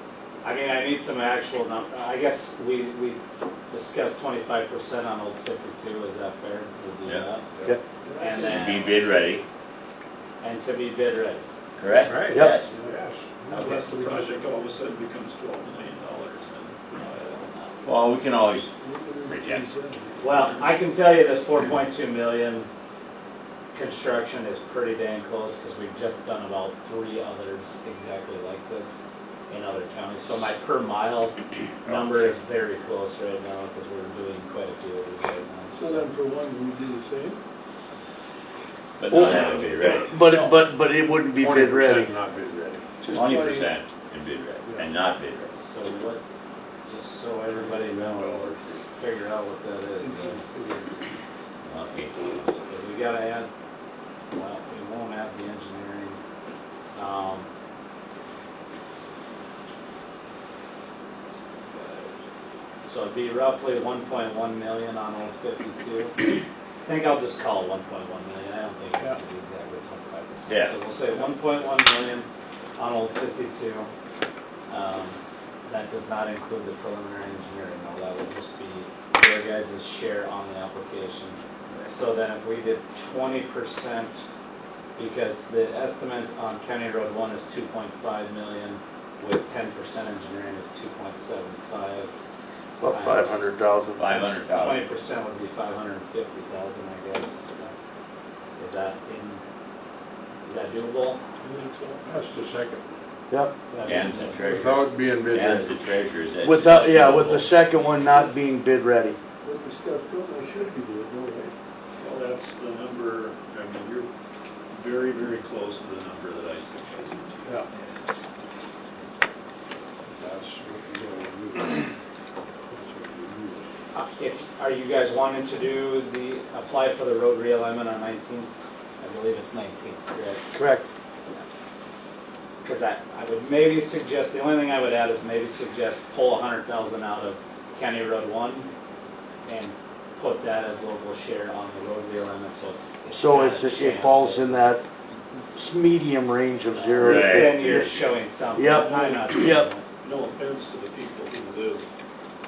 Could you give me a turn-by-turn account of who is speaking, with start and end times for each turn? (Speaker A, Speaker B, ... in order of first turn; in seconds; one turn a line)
Speaker A: 0.4-7.4
Speaker B: 8.1-8.7
Speaker A: 8.2-9.0
Speaker C: 8.3-9.4
Speaker A: 10.4-11.4
Speaker C: 11.8-12.7
Speaker D: 12.1-14.4
Speaker E: 12.2-12.6
Speaker F: 13.5-17.5
Speaker C: 17.8-18.7
Speaker B: 18.8-20.1
Speaker C: 19.3-19.6
Speaker A: 20.2-22.7
Speaker A: 23.7-36.1
Speaker C: 31.9-32.3
Speaker B: 35.7-37.4
Speaker C: 39.0-40.1
Speaker E: 39.1-42.1
Speaker D: 40.3-40.6
Speaker D: 41.4-42.8
Speaker F: 43.1-43.7
Speaker C: 43.1-45.5
Speaker A: 45.5-46.2
Speaker A: 46.8-50.4
Speaker D: 47.8-48.8
Speaker B: 50.1-50.8
Speaker C: 51.6-52.6
Speaker A: 52.7-53.5
Speaker A: 54.3-56.2
Speaker A: 56.9-57.5
Speaker F: 61.7-62.2
Speaker A: 62.9-66.2
Speaker A: 66.8-73.9
Speaker C: 70.5-70.8
Speaker A: 74.7-84.2
Speaker A: 85.0-92.1
Speaker E: 92.8-94.3
Speaker A: 92.8-93.4
Speaker C: 94.0-94.8
Speaker A: 94.5-97.7
Speaker A: 98.6-99.4
Speaker A: 100.4-101.2
Speaker B: 101.4-102.1
Speaker D: 102.0-102.8
Speaker E: 103.3-103.6
Speaker B: 103.7-104.0
Speaker A: 103.8-104.8
Speaker C: 103.8-107.5
Speaker D: 104.5-105.7
Speaker E: 106.4-109.2
Speaker B: 109.4-111.5
Speaker F: 112.0-114.1
Speaker F: 114.7-117.8
Speaker D: 120.2-121.9
Speaker D: 122.7-123.7
Speaker A: 123.9-130.4
Speaker E: 130.5-130.8
Speaker A: 132.6-138.7
Speaker A: 139.4-144.8
Speaker E: 143.1-144.8
Speaker E: 145.5-149.7
Speaker A: 146.7-149.8
Speaker C: 147.0-147.5
Speaker F: 150.0-151.8